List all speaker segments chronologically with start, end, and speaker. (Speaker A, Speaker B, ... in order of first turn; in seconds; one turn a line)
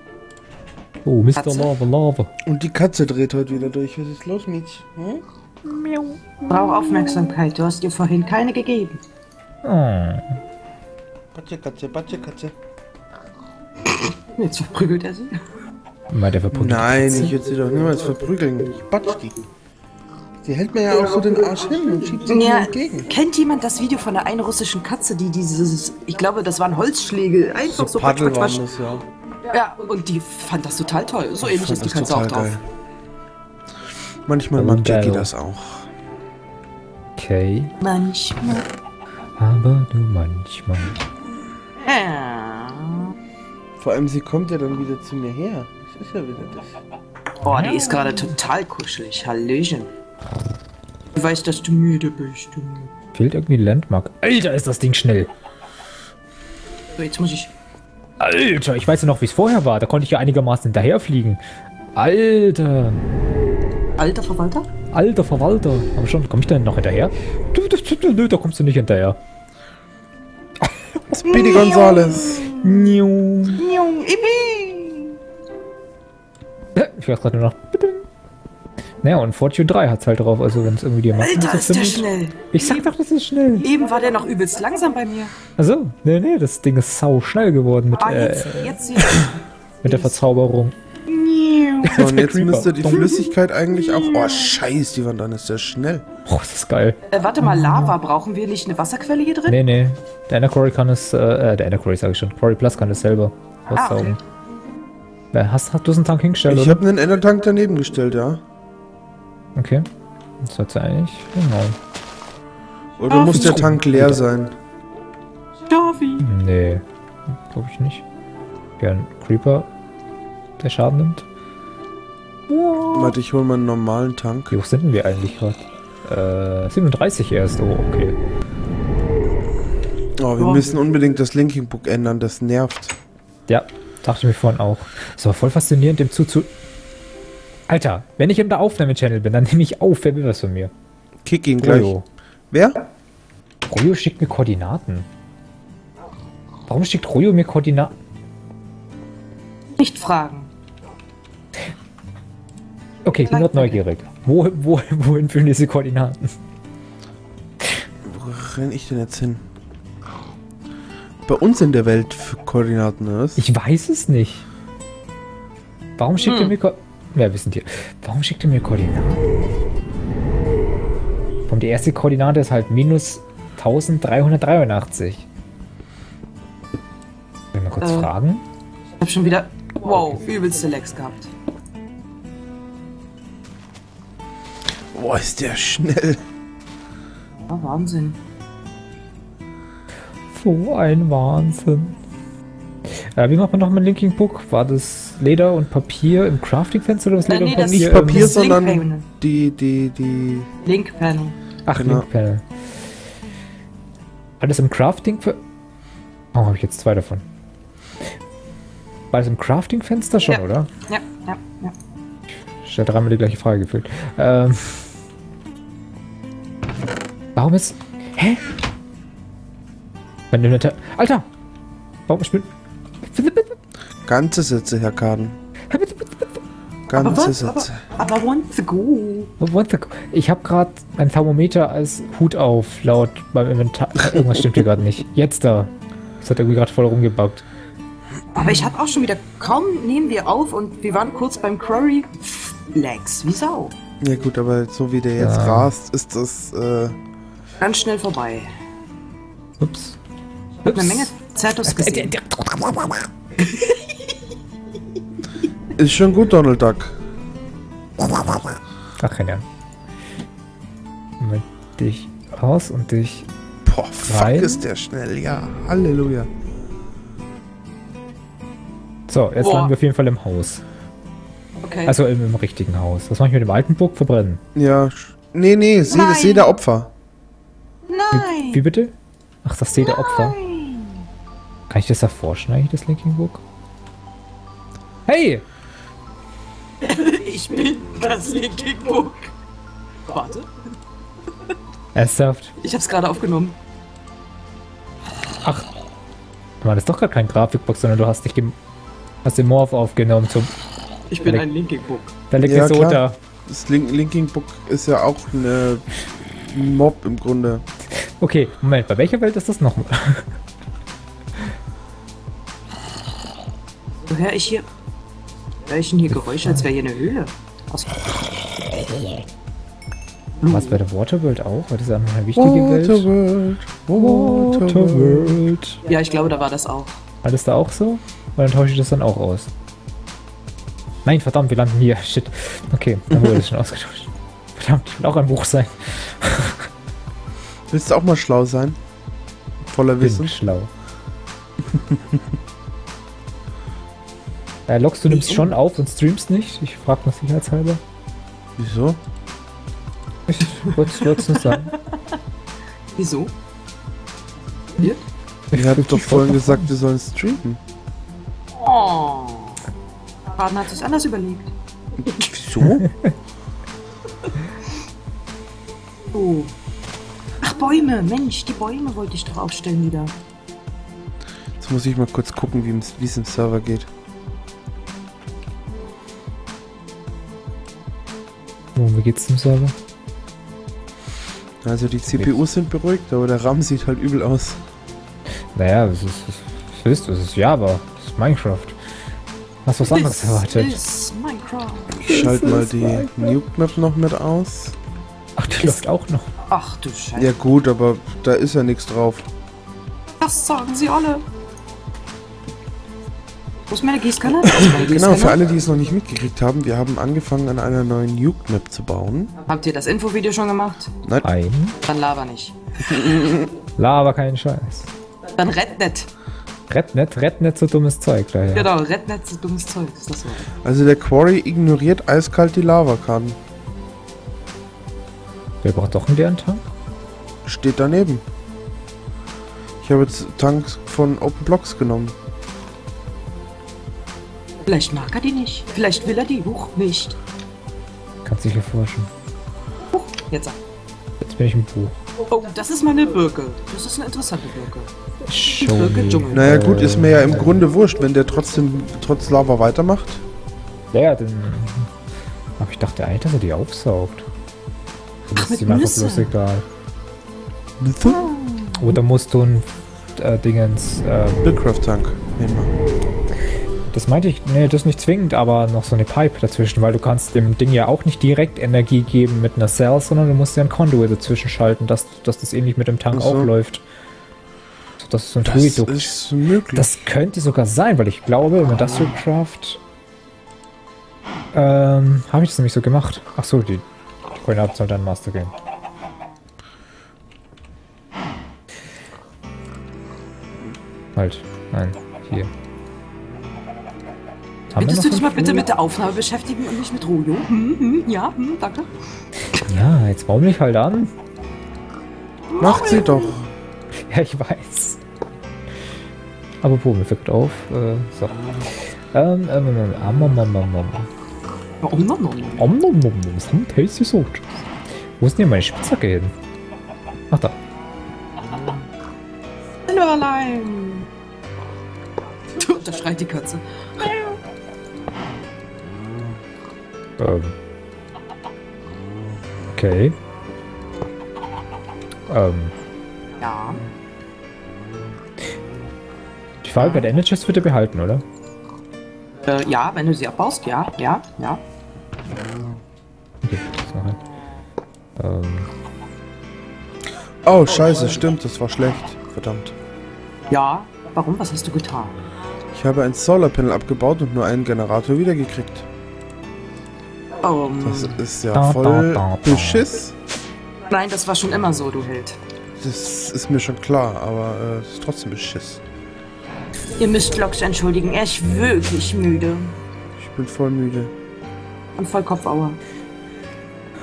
Speaker A: 1.0-2.3
Speaker B: 1.4-1.7
Speaker C: 2.4-5.2
Speaker A: 5.6-7.2
Speaker B: 6.5-9.0
Speaker A: 9.6-10.4
Speaker C: 11.3-12.5
Speaker B: 13.8-15.4
Speaker A: 16.1-17.3
Speaker C: 16.5-19.4
Speaker C: 20.4-23.1
Speaker B: 22.2-28.6
Speaker C: 27.7-29.1
Speaker B: 29.5-32.6
Speaker C: 31.4-32.6
Speaker C: 34.2-35.9
Speaker A: 34.5-35.3
Speaker A: 37.2-37.7
Speaker B: 37.8-38.7
Speaker A: 39.4-41.0
Speaker B: 41.8-43.1
Speaker C: 43.8-46.8
Speaker B: 47.4-49.9
Speaker A: 47.4-48.3
Speaker B: 51.1-52.9
Speaker A: 53.1-55.3
Speaker B: 56.9-57.5
Speaker A: 58.2-61.4
Speaker A: 62.0-63.0
Speaker B: 64.0-64.7
Speaker A: 64.9-69.2
Speaker A: 70.6-71.2
Speaker C: 71.1-72.5
Speaker B: 71.2-75.2
Speaker A: 72.5-73.6
Speaker A: 76.7-78.0
Speaker A: 79.0-83.7
Speaker B: 81.2-82.8
Speaker B: 83.6-85.3
Speaker A: 85.6-88.8
Speaker B: 88.0-90.2
Speaker A: 89.8-90.7
Speaker B: 91.0-92.0
Speaker A: 91.8-93.2
Speaker C: 91.8-96.0
Speaker B: 93.9-94.5
Speaker A: 96.2-97.9
Speaker B: 97.1-99.6
Speaker A: 99.5-104.2
Speaker B: 103.7-104.2
Speaker A: 105.3-106.8
Speaker C: 106.5-108.4
Speaker A: 109.5-109.8
Speaker A: 110.4-111.8
Speaker C: 113.0-114.5
Speaker B: 113.1-113.6
Speaker A: 113.2-114.2
Speaker B: 115.7-116.3
Speaker A: 116.2-116.8
Speaker A: 117.5-118.0
Speaker A: 118.8-119.7
Speaker A: 120.6-121.2
Speaker A: 122.5-123.1
Speaker C: 122.9-124.5
Speaker A: 124.5-128.2
Speaker C: 130.2-132.9
Speaker B: 130.4-130.8
Speaker A: 133.5-136.5
Speaker A: 137.7-140.7
Speaker C: 141.2-141.9
Speaker A: 141.6-142.0
Speaker C: 142.5-142.8
Speaker A: 143.7-145.1
Speaker A: 146.7-147.9
Speaker B: 149.8-150.5
Speaker A: 153.0-156.3
Speaker B: 153.2-153.8
Speaker C: 158.0-159.4
Speaker C: 161.2-163.4
Speaker A: 163.3-164.4
Speaker A: 166.0-169.2
Speaker B: 166.2-166.5
Speaker A: 171.5-175.2
Speaker A: 177.5-178.4
Speaker B: 177.8-178.1
Speaker B: 179.0-181.3
Speaker C: 184.9-186.2
Speaker B: 187.5-188.2
Speaker A: 190.3-192.0
Speaker A: 192.8-198.6
Speaker B: 197.2-199.1
Speaker C: 197.5-200.5
Speaker B: 200.6-201.3
Speaker A: 201.7-202.4
Speaker C: 201.7-202.1
Speaker A: 204.4-205.4
Speaker A: 206.3-207.2
Speaker A: 209.1-210.7
Speaker B: 210.3-211.7
Speaker A: 212.3-214.9
Speaker A: 217.3-218.4
Speaker A: 220.3-221.2
Speaker A: 222.1-222.5
Speaker A: 223.0-223.6
Speaker C: 224.0-225.4
Speaker A: 225.7-226.4
Speaker C: 226.9-227.8
Speaker B: 226.9-229.3
Speaker A: 229.4-237.4
Speaker C: 234.1-234.6
Speaker B: 238.3-243.7
Speaker C: 244.0-246.9
Speaker A: 245.2-245.7
Speaker B: 247.6-248.5
Speaker A: 249.6-250.0
Speaker A: 250.6-251.1
Speaker B: 250.6-252.2
Speaker A: 251.6-253.1
Speaker B: 253.4-254.1
Speaker C: 255.7-256.9
Speaker A: 259.0-259.4
Speaker A: 261.2-263.3
Speaker C: 263.6-266.3
Speaker A: 264.0-264.7
Speaker A: 269.1-270.6
Speaker B: 269.4-269.7
Speaker B: 271.6-271.9
Speaker A: 271.9-274.4
Speaker C: 274.5-276.9
Speaker B: 275.9-276.5
Speaker B: 277.9-278.6
Speaker A: 278.1-280.4
Speaker B: 279.8-281.1
Speaker A: 281.7-283.4
Speaker A: 285.1-285.4
Speaker B: 286.8-289.3
Speaker B: 290.1-290.5
Speaker A: 291.9-292.5
Speaker B: 292.6-293.6
Speaker A: 295.4-295.7
Speaker A: 296.6-298.5
Speaker A: 299.2-300.5
Speaker B: 301.1-302.1
Speaker A: 301.2-301.4
Speaker A: 302.3-303.1
Speaker C: 302.4-307.6
Speaker A: 308.0-310.4
Speaker B: 314.1-314.6
Speaker B: 315.6-318.2
Speaker A: 316.1-316.6
Speaker A: 319.0-319.2
Speaker B: 320.4-320.8
Speaker A: 320.5-323.1
Speaker C: 322.4-325.4
Speaker A: 323.9-325.8
Speaker B: 325.8-327.0
Speaker A: 327.2-329.5
Speaker A: 331.0-336.7
Speaker C: 333.1-333.4
Speaker C: 337.7-338.8
Speaker C: 339.7-340.4
Speaker A: 340.0-340.7
Speaker C: 341.7-342.1
Speaker A: 344.7-347.8
Speaker B: 345.1-345.5
Speaker C: 348.6-349.0
Speaker A: 350.3-351.7
Speaker B: 350.4-352.2
Speaker B: 352.9-353.3
Speaker B: 354.8-355.0
Speaker A: 355.5-356.6
Speaker C: 355.5-357.6
Speaker B: 358.6-359.6
Speaker B: 360.3-361.5
Speaker C: 362.0-362.9
Speaker B: 366.1-366.5
Speaker B: 367.4-370.1
Speaker C: 371.6-373.9
Speaker A: 378.8-379.7
Speaker C: 381.6-384.6
Speaker A: 382.0-382.4
Speaker A: 385.5-388.8
Speaker A: 389.6-390.8
Speaker B: 389.9-392.0
Speaker C: 391.9-394.8
Speaker A: 392.0-393.4
Speaker A: 395.4-396.3
Speaker B: 395.6-395.9
Speaker B: 396.5-397.3
Speaker C: 397.1-399.3
Speaker B: 400.2-401.2
Speaker B: 403.7-405.4
Speaker C: 404.5-409.3
Speaker B: 409.4-410.9
Speaker A: 411.2-411.8
Speaker B: 411.8-413.0
Speaker C: 412.8-413.5
Speaker A: 413.8-414.9
Speaker B: 415.3-416.1
Speaker A: 416.7-418.7
Speaker B: 418.5-420.5
Speaker C: 420.6-423.4
Speaker A: 425.6-426.6
Speaker C: 427.4-428.2
Speaker C: 429.8-432.1
Speaker B: 434.6-437.2
Speaker A: 438.2-439.1
Speaker B: 439.9-440.6
Speaker A: 441.2-442.0
Speaker B: 442.2-444.9
Speaker A: 445.2-447.6
Speaker B: 445.5-446.7
Speaker C: 446.3-450.2
Speaker A: 450.9-451.9
Speaker A: 452.6-454.3
Speaker A: 455.2-456.6
Speaker B: 455.3-456.3
Speaker C: 457.8-458.3
Speaker B: 458.0-459.0
Speaker A: 458.7-461.5
Speaker C: 461.4-462.7
Speaker A: 463.9-473.8
Speaker C: 473.1-473.5
Speaker A: 475.0-476.1
Speaker C: 475.4-476.9
Speaker A: 476.7-479.8
Speaker A: 481.5-485.5
Speaker A: 491.1-492.5
Speaker A: 494.7-495.7
Speaker B: 494.8-498.9
Speaker A: 499.5-501.1
Speaker B: 502.5-503.3
Speaker C: 502.6-503.5
Speaker A: 503.9-505.0
Speaker A: 506.6-511.1
Speaker B: 511.8-512.7
Speaker A: 512.6-514.7
Speaker A: 515.2-516.3
Speaker A: 517.3-517.5
Speaker B: 519.9-521.1
Speaker B: 522.5-524.4
Speaker A: 527.2-527.5
Speaker A: 529.7-530.1
Speaker A: 532.3-532.7
Speaker B: 533.4-533.8
Speaker A: 536.6-538.2
Speaker B: 536.8-537.1
Speaker B: 539.4-541.6
Speaker A: 543.4-544.2
Speaker A: 545.2-545.7
Speaker C: 547.4-549.7
Speaker B: 547.9-548.2
Speaker B: 550.5-552.2
Speaker C: 552.7-555.9
Speaker B: 557.4-558.2
Speaker C: 557.8-560.1
Speaker A: 558.5-559.9
Speaker B: 560.9-562.4
Speaker C: 562.8-565.8
Speaker B: 567.0-569.8
Speaker C: 570.2-571.1
Speaker B: 572.0-572.8